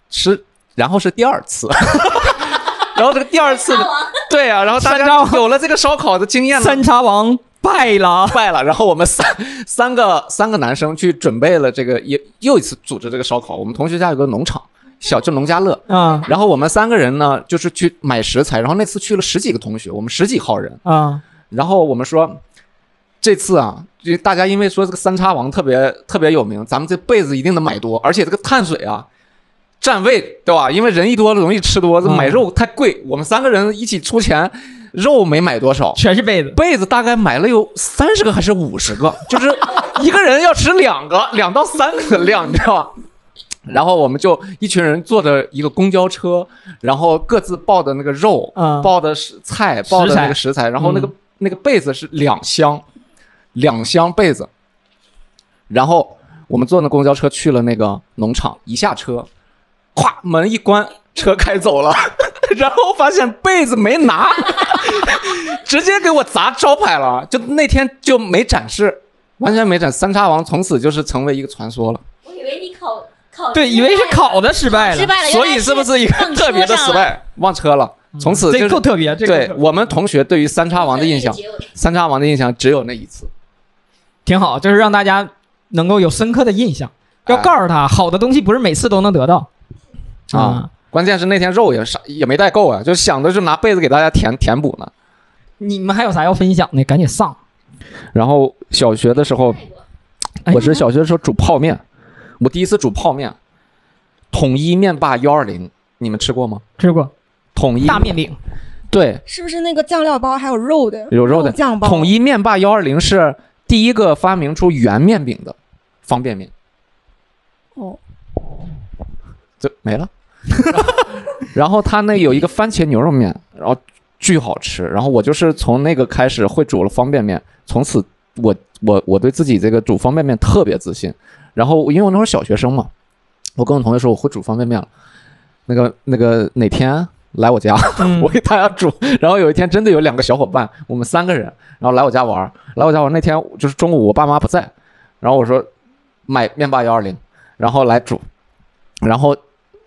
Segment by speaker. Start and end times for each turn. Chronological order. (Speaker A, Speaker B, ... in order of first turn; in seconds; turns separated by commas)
Speaker A: 0.1-6.8, Speaker B: 3.7-4.1, Speaker C: 4.8-5.4, Speaker C: 6.5-8.4, Speaker A: 8.3-20.8, Speaker C: 15.9-16.3, Speaker C: 20.8-21.2, Speaker A: 21.5-22.4, Speaker A: 23.2-29.1, Speaker A: 29.8-36.0, Speaker C: 32.0-32.4, Speaker C: 36.0-36.6, Speaker A: 36.5-42.9, Speaker A: 43.7-52.8, Speaker C: 48.5-48.9, Speaker C: 49.9-51.1, Speaker A: 53.5-54.5, Speaker A: 55.7-59.3, Speaker A: 59.9-72.0, Speaker B: 72.2-77.1, Speaker C: 73.5-75.1, Speaker A: 75.2-83.3, Speaker C: 78.2-79.6, Speaker B: 80.8-81.7, Speaker C: 84.2-89.5, Speaker A: 87.2-87.5, Speaker A: 90.3-94.9, Speaker C: 90.3-90.7, Speaker C: 95.6-97.4, Speaker A: 98.1-99.6, Speaker C: 100.5-100.8, Speaker A: 100.5-101.8, Speaker A: 102.4-103.4, Speaker A: 104.3-106.6, Speaker C: 106.8-107.1, Speaker A: 107.5-108.2, Speaker C: 107.8-108.4, Speaker A: 108.9-109.2, Speaker D: 109.3-112.1, Speaker A: 111.1-116.5, Speaker A: 119.6-132.9, Speaker A: 133.6-134.9, Speaker A: 135.7-145.7, Speaker C: 138.0-138.3, Speaker A: 146.3-148.2, Speaker A: 149.0-149.4